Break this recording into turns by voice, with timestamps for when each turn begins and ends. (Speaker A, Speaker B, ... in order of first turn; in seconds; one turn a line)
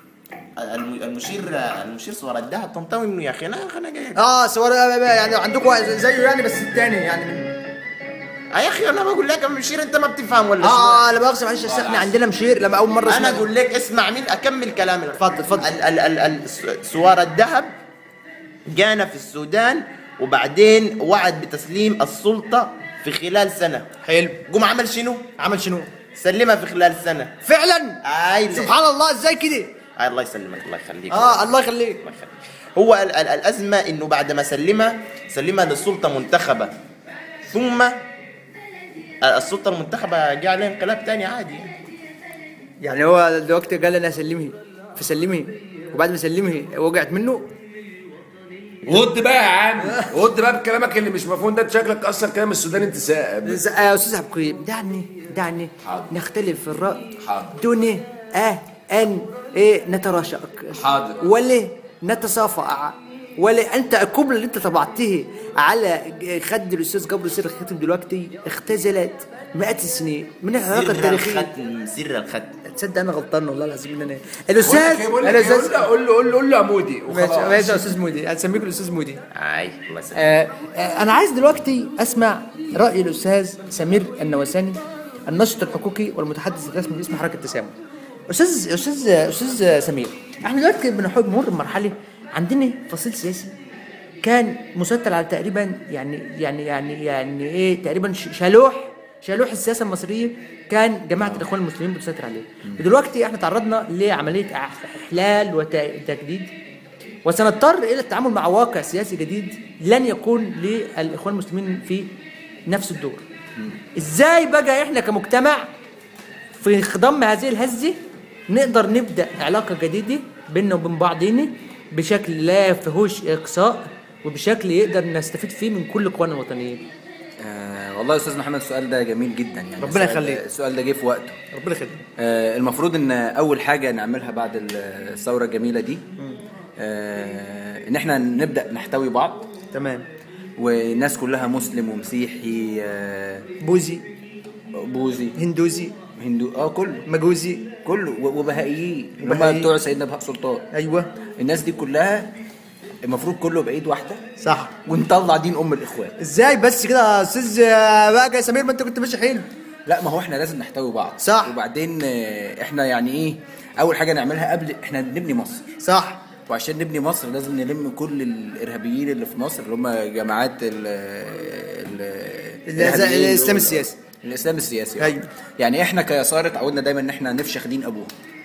Speaker A: 0.6-4.2
Speaker B: 4.2-7.5
Speaker A: 8.5-11.0
Speaker B: 10.6-13.4
Speaker C: 11.7-12.1
Speaker A: 13.1-17.7
Speaker B: 15.2-15.7
Speaker A: 18.7-23.9
Speaker B: 24.0-24.4
Speaker A: 24.5-25.3
Speaker B: 25.4-25.9
Speaker A: 26.1-27.3
Speaker B: 27.4-29.7
Speaker A: 28.0-28.7
Speaker A: 30.0-36.7
Speaker B: 31.1-32.0
Speaker A: 37.5-38.0
Speaker A: 39.2-41.7
Speaker B: 42.8-47.5
Speaker C: 48.8-53.6
Speaker B: 53.4-71.5
Speaker C: 55.8-56.1
Speaker C: 57.2-57.5
Speaker C: 60.7-61.2
Speaker A: 70.7-72.6
Speaker B: 72.7-75.9
Speaker C: 74.6-77.9
Speaker B: 77.1-79.2
Speaker A: 79.3-80.2
Speaker B: 80.1-87.7
Speaker B: 88.3-93.5
Speaker B: 94.2-106.5
Speaker B: 107.2-112.1
Speaker B: 112.7-113.2
Speaker B: 113.9-115.7
Speaker B: 116.6-118.0
Speaker B: 118.5-126.8
Speaker D: 127.4-131.4
Speaker B: 129.8-130.4
Speaker B: 131.5-132.0
Speaker D: 132.2-136.0
Speaker D: 136.8-139.5
Speaker B: 139.7-140.0
Speaker D: 140.6-143.5
Speaker B: 143.6-144.0
Speaker D: 144.7-145.4
Speaker B: 145.3-145.9
Speaker D: 146.2-147.1
Speaker B: 147.1-147.7
Speaker D: 147.8-150.7
Speaker B: 149.2-149.7
Speaker B: 150.7-151.1
Speaker D: 151.4-152.3
Speaker D: 153.0-154.2
Speaker B: 154.4-154.7
Speaker D: 154.8-156.2
Speaker B: 156.2-159.5
Speaker D: 159.8-165.7
Speaker B: 161.2-161.5
Speaker B: 165.8-166.2
Speaker D: 166.5-178.1
Speaker B: 172.7-173.9
Speaker B: 175.0-175.2